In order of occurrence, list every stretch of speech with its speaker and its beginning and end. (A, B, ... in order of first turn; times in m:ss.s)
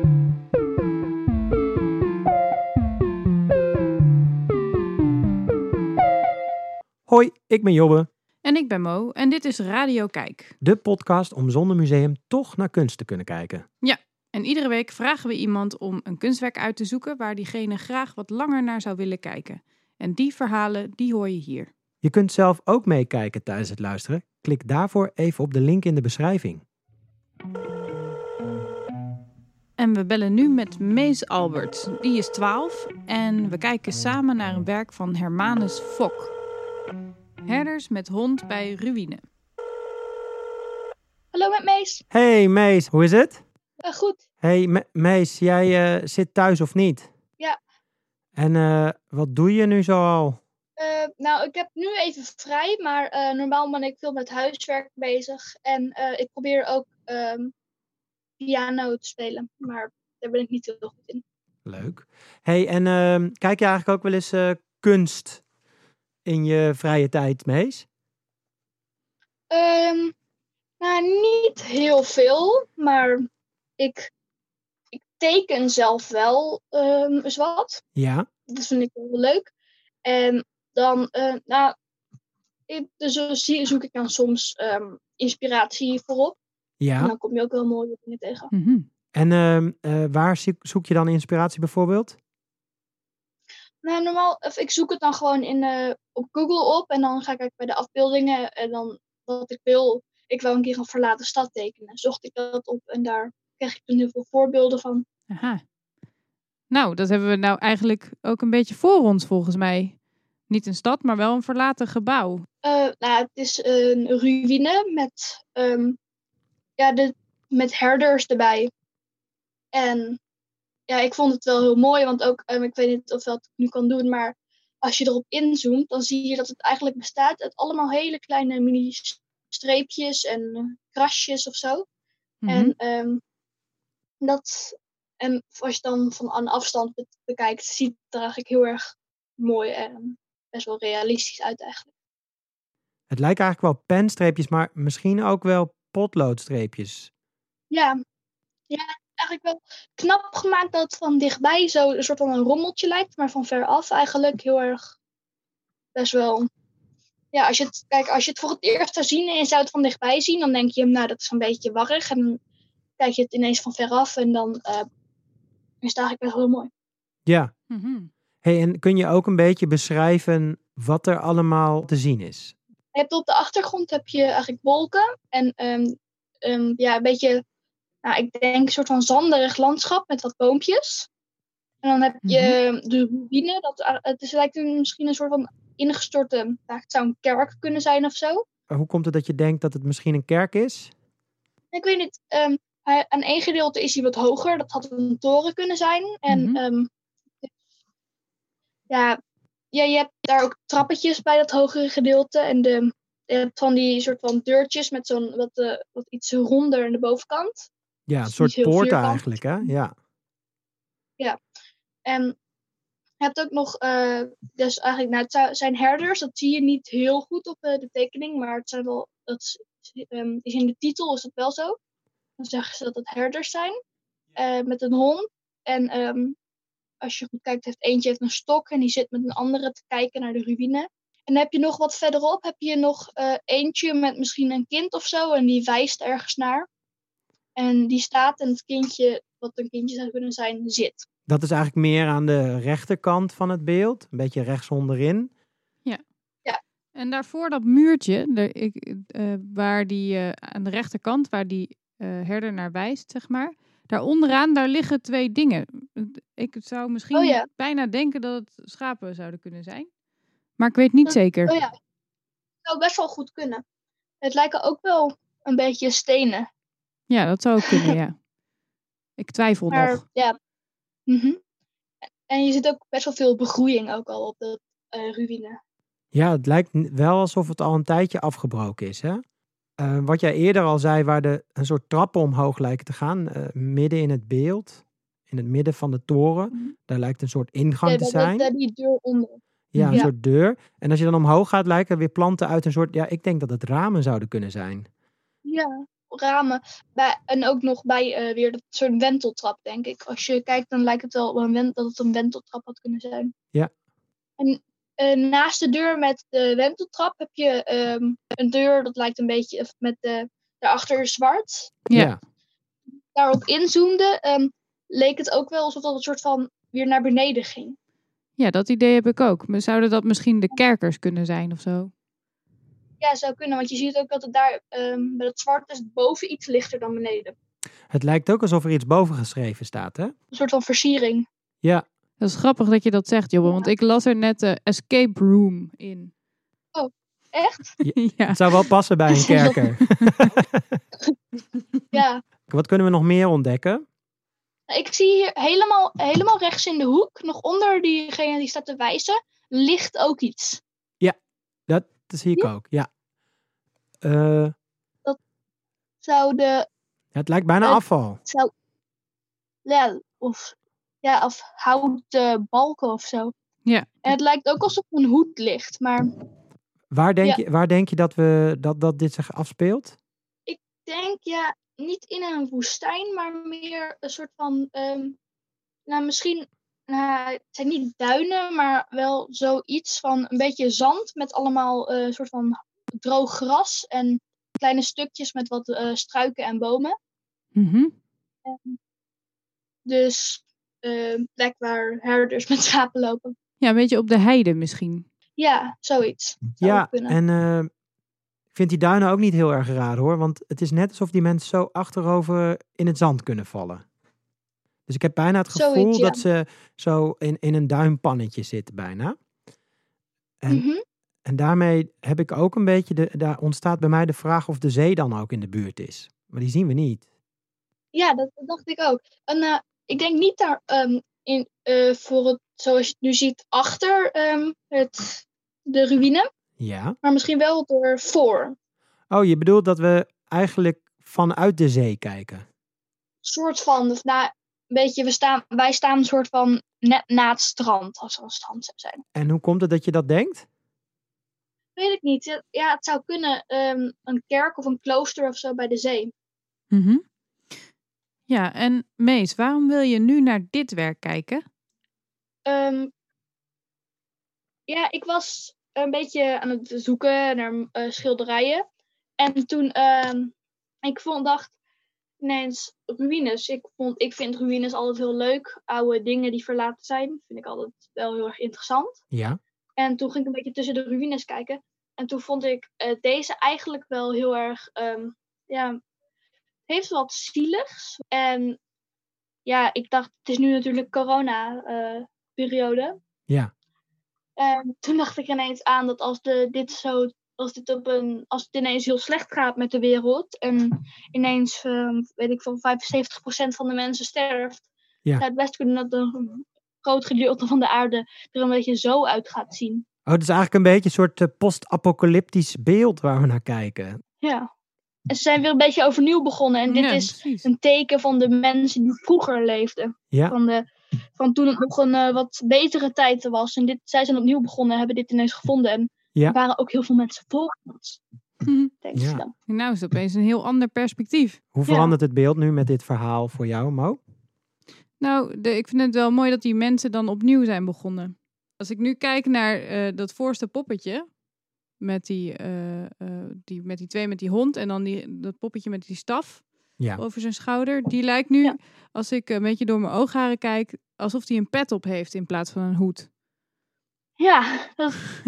0:07.1-0:08.1 A
0:08.4-0:10.5 B
0:10.6-0:13.6 A
0:13.8-0:21.7 B
0:22.0-0:26.6 A
0:29.8-0:36.3 B
0:37.4-0:39.2 B
0:41.3-0:42.0 C
0:42.1-0:43.4 A
0:43.8-0:44.2 C
0:44.4-0:47.1 A
0:48.4-0:50.4 A
0:50.8-0:57.5 C
0:58.4-1:01.2 C
1:01.6-1:05.4 A
1:06.2-1:07.8 A
1:09.5-1:10.1 C
1:10.8-1:13.3 C
1:13.8-1:14.1 C
1:14.9-1:17.8 C
1:18.0-1:18.3 A
1:18.5-1:19.5 C
1:20.0-1:21.8 C
1:22.7-1:26.4 C
1:26.8-1:27.1 A
1:27.0-1:28.5 C
1:28.5-1:28.9 B
1:29.1-1:32.2 A
1:33.8-1:45.0 C
1:45.3-1:45.6 B
1:46.7-1:50.0 B
1:50.5-1:52.4 B
1:52.6-1:56.0 C
1:56.8-1:58.7 C
1:59.7-2:00.2 C
2:00.9-2:11.8 C
2:12.4-2:12.7 B
2:12.5-2:13.2 C
2:14.2-2:21.9 C
2:23.1-2:27.1 A
2:27.7-2:28.0 C
2:28.7-2:34.9 C
2:35.9-2:36.5 C
2:37.3-2:42.4 C
2:43.0-2:44.8 C
2:45.8-2:46.7 C
2:47.2-2:47.5 A
2:47.7-2:48.1 B
2:48.4-2:52.5 A
2:52.9-2:57.4 C
2:58.0-3:01.1 C
3:01.8-3:08.4 C
3:02.2-3:02.6 B
3:08.7-3:10.9 A
3:11.7-3:16.9 C
3:16.3-3:16.6 B
3:18.9-3:19.2 C
3:19.7-3:27.7 C
3:28.1-3:29.9 A
3:28.2-3:29.2 C
3:32.0-3:32.4 C
3:33.2-3:41.8 C
3:42.4-3:43.8 C
3:44.4-3:46.4 C
3:47.0-3:56.7 C
3:57.6-4:01.1 C
4:01.3-4:05.3 A
4:06.9-4:19.9 B
4:17.1-4:17.5 C
4:20.6-4:21.5 B
4:21.0-4:21.7 C
4:22.6-4:23.6 C
4:24.2-4:26.5 C
4:27.1-4:28.2 B
4:29.2-4:30.0 B
4:29.7-4:30.4 C
4:31.1-4:31.4 C
4:32.3-4:35.6 C
4:36.1-4:39.2 A
4:39.8-4:48.5 A
4:47.8-4:49.4 C
4:49.7-4:54.9 A
4:49.7-4:50.0 B
4:55.4-5:03.3 C
5:04.4-5:11.8 C
5:11.9-5:12.1 B
5:11.9-5:12.2 A
5:13.1-5:17.8 C
5:18.4-5:21.9 B
5:23.0-5:27.3 C
5:27.9-5:30.1 A
5:30.3-5:31.2 C
5:32.2-5:36.1 B
5:33.4-5:33.7 C
5:36.7-5:37.7 C
5:37.8-5:40.6 A
5:38.0-5:38.4 B
5:39.2-5:39.5 C
5:39.3-5:40.3 B
5:41.9-5:42.2 C
5:42.5-5:43.8 A
5:44.7-5:50.6 C
5:51.7-5:52.9 A
5:54.0-5:54.5 A
5:56.0-5:56.7 C
5:57.1-5:58.2 A
5:57.6-5:58.5 C
5:59.6-6:03.3 C
6:04.0-6:06.1 C
6:06.9-6:10.0 A
6:10.5-6:15.2 C
6:15.9-6:26.9 C
6:27.6-6:27.9 B
6:28.4-6:28.8 C
6:29.8-6:33.3 C
6:33.6-6:35.0 B
6:35.4-6:37.2 C
6:36.6-6:37.7 A
6:38.5-6:43.8 A
6:44.9-6:49.2 A
6:45.5-6:46.2 C
6:50.5-6:50.8 C
6:51.2-6:57.0 A
6:57.9-7:06.3 C
7:06.6-7:07.0 A
7:07.0-7:08.5 C
7:09.1-7:12.4 A
7:13.2-7:19.0 C
7:19.1-7:20.4 A
7:21.8-7:26.1 C
7:26.7-7:27.0 B
7:28.3-7:31.4 B
7:32.4-7:32.9 C
7:34.7-7:38.6 C
7:39.2-7:40.3 C
7:40.8-7:41.5 C
7:42.2-7:49.0 C
7:49.1-7:49.4 A
7:49.8-7:55.8 C
7:56.7-7:58.6 C
7:59.4-8:03.0 C
8:04.4-8:14.6 C
8:15.2-8:19.8 C
8:20.0-8:24.0 A
8:24.2-8:24.5 C
8:25.1-8:38.0 C
8:26.7-8:27.5 B
8:30.1-8:30.4 A
8:38.4-8:38.7 B
8:38.8-8:39.3 C
8:38.9-8:39.2 A
8:39.5-8:41.4 B
8:41.5-8:44.0 A
8:41.7-8:41.9 C
8:45.0-8:51.1 B
8:51.8-9:03.1 B
9:04.2-9:05.0 C